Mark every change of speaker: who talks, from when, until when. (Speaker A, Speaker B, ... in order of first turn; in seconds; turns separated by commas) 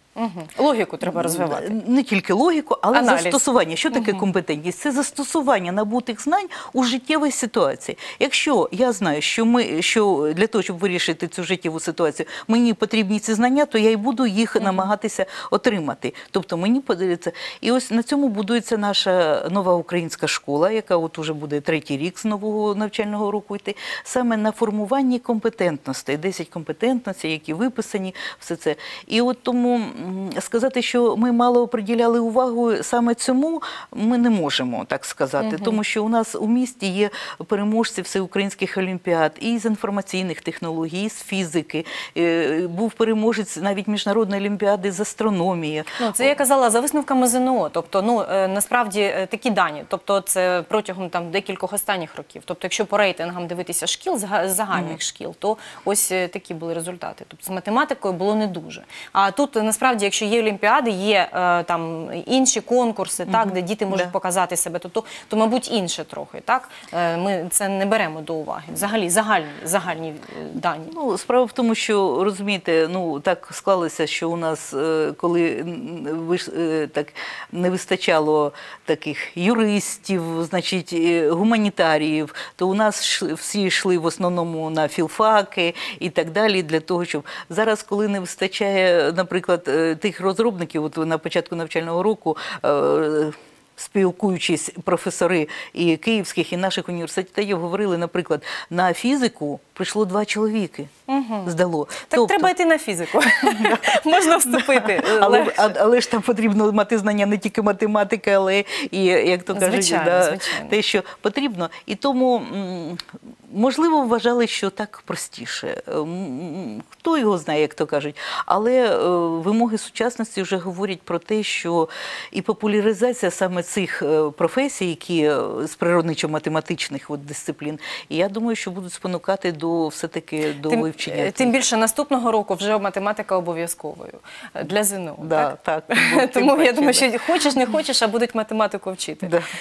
Speaker A: 0.2-1.8, Speaker B: 1.0-46.3, Speaker A: 2.9-4.2, Speaker A: 14.6-14.9, Speaker A: 35.4-35.8, Speaker A: 46.0-70.9, Speaker B: 54.7-55.0, Speaker B: 63.3-64.1, Speaker B: 70.9-100.9, Speaker A: 101.1-101.5, Speaker B: 101.5-102.5, Speaker A: 102.0-105.8, Speaker B: 103.5-131.6, Speaker A: 109.5-110.8, Speaker A: 130.7-139.3, Speaker B: 135.2-137.1, Speaker B: 139.2-139.5